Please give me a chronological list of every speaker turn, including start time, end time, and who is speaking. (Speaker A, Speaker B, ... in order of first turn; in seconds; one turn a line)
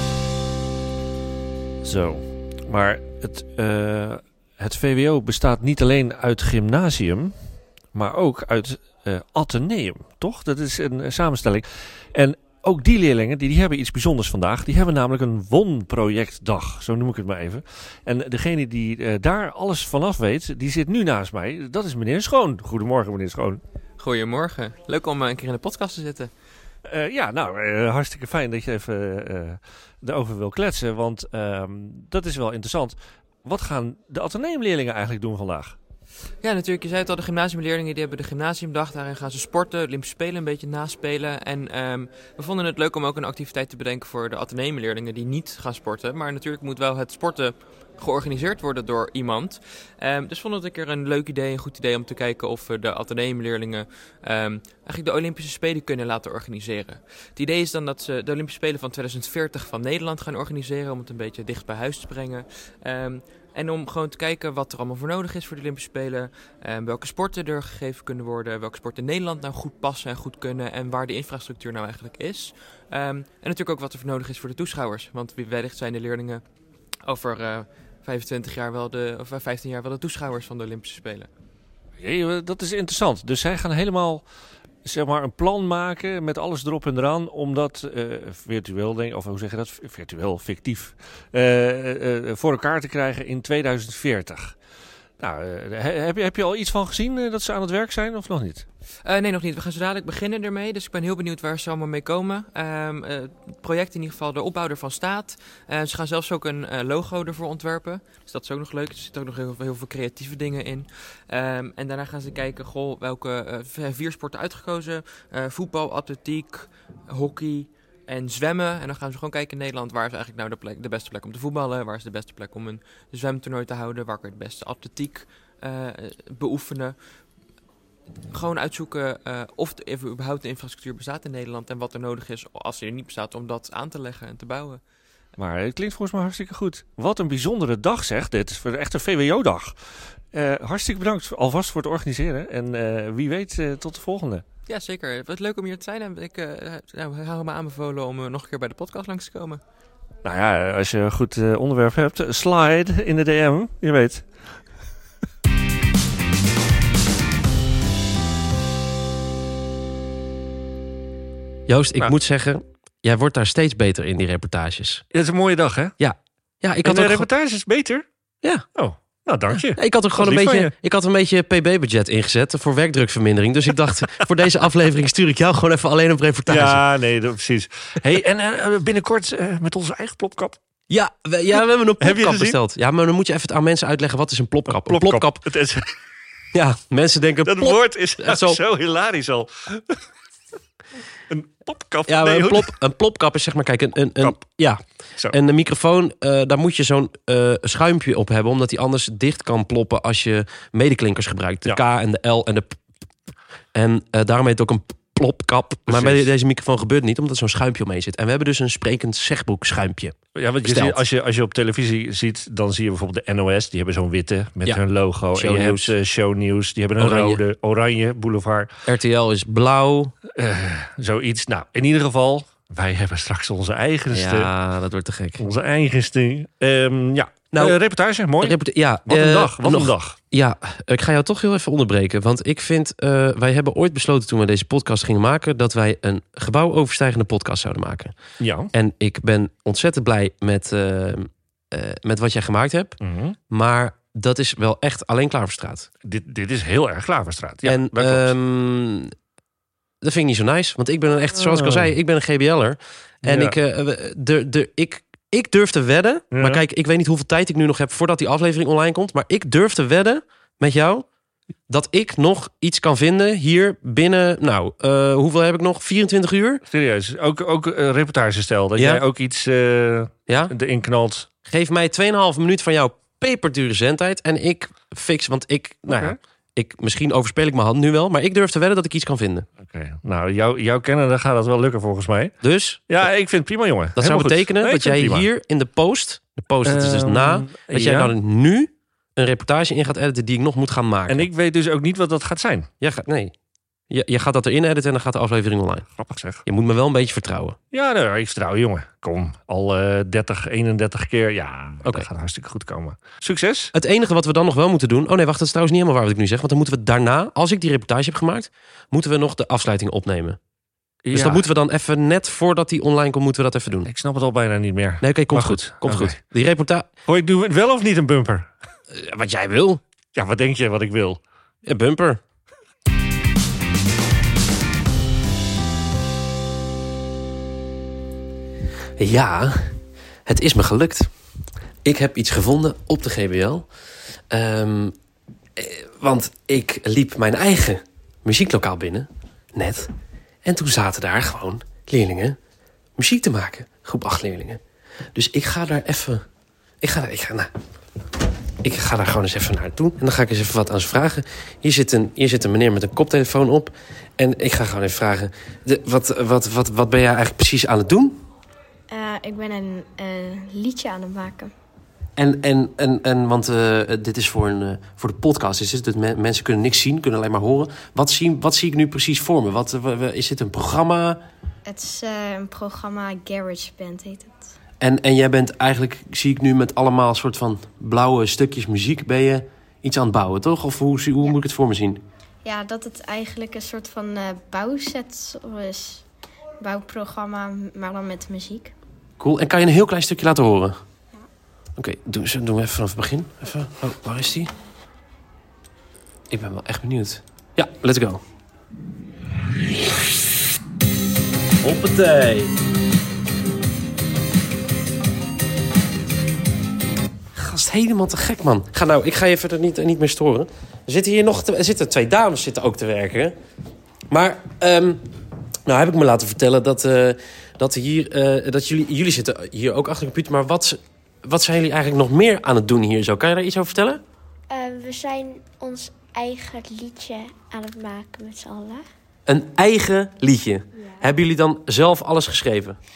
Speaker A: 1.8-7.3
Speaker A: 7.9-23.6
Speaker B: 24.0-26.3
Speaker A: 26.9-35.8
Speaker B: 36.4-76.4
Speaker B: 77.0-81.3
Speaker A: 82.0-84.2
Speaker A: 84.8-94.5
Speaker A: 95.2-98.6
Speaker B: 99.0-127.0
Speaker B: 128.3-134.8
Speaker A: 135.4-139.8
Speaker A: 140.3-144.4
Speaker B: 144.7-149.6
Speaker A: 150.2-154.2
Speaker C: 161.7-165.0
Speaker A: 165.1-165.9
Speaker C: 166.0-167.3
Speaker A: 166.8-168.0
Speaker A: 168.7-170.7
Speaker C: 169.5-176.8
Speaker A: 176.5-180.6
Speaker C: 180.9-185.4
Speaker A: 182.0-182.6
Speaker A: 184.7-185.9
Speaker C: 186.5-188.6
Speaker A: 187.4-190.0
Speaker A: 191.3-192.7
Speaker C: 192.1-202.8
Speaker C: 203.7-211.0
Speaker A: 205.9-206.3
Speaker A: 210.3-218.7
Speaker C: 215.3-215.9
Speaker C: 217.0-217.4
Speaker C: 218.9-220.1
Speaker A: 220.3-224.5
Speaker C: 224.1-225.4
Speaker A: 225.4-230.2
Speaker C: 227.5-227.8
Speaker C: 228.4-238.1
Speaker A: 238.4-238.7
Speaker C: 238.7-242.9
Speaker A: 243.0-243.3
Speaker C: 243.5-245.9
Speaker A: 246.0-248.3
Speaker C: 247.6-249.1
Speaker C: 250.0-261.1
Speaker A: 251.3-251.9
Speaker A: 253.2-253.6
Speaker A: 256.3-256.6
Speaker C: 261.7-266.6
Speaker A: 266.7-271.3
Speaker C: 268.8-269.0
Speaker C: 271.4-279.5
Speaker A: 275.9-276.2
Speaker A: 279.6-282.4
Speaker C: 282.4-282.8
Speaker A: 282.9-285.3
Speaker C: 283.9-291.3
Speaker A: 286.6-288.1
Speaker A: 291.1-292.7
Speaker C: 292.8-293.3
Speaker C: 293.9-295.9
Speaker A: 295.9-296.4
Speaker C: 296.4-297.6
Speaker A: 297.7-303.7
Speaker C: 301.8-302.1
Speaker C: 303.7-310.4
Speaker A: 311.0-311.5
Speaker C: 311.1-313.9
Speaker A: 313.8-316.2
Speaker C: 315.0-316.9
Speaker A: 317.1-318.5
Speaker C: 318.9-319.8
Speaker A: 320.1-321.2
Speaker C: 321.6-322.2
Speaker C: 329.0-329.7
Speaker C: 330.2-331.1
Speaker C: 331.8-333.7
Speaker C: 334.3-334.9
Speaker C: 335.6-339.9
Speaker C: 340.4-342.4
Speaker C: 343.0-344.6
Speaker C: 345.1-346.2
Speaker C: 346.8-347.5
Speaker C: 348.6-358.2
Speaker D: 358.9-361.5
Speaker C: 362.2-371.2
Speaker D: 371.6-374.5
Speaker C: 374.8-382.0
Speaker D: 382.4-386.0
Speaker D: 386.6-388.7
Speaker C: 389.2-390.8
Speaker C: 391.8-394.5
Speaker C: 396.3-398.2
Speaker C: 401.6-402.5
Speaker C: 407.3-413.3
Speaker C: 414.1-415.0
Speaker C: 415.6-424.0
Speaker E: 424.5-428.8
Speaker C: 429.3-432.8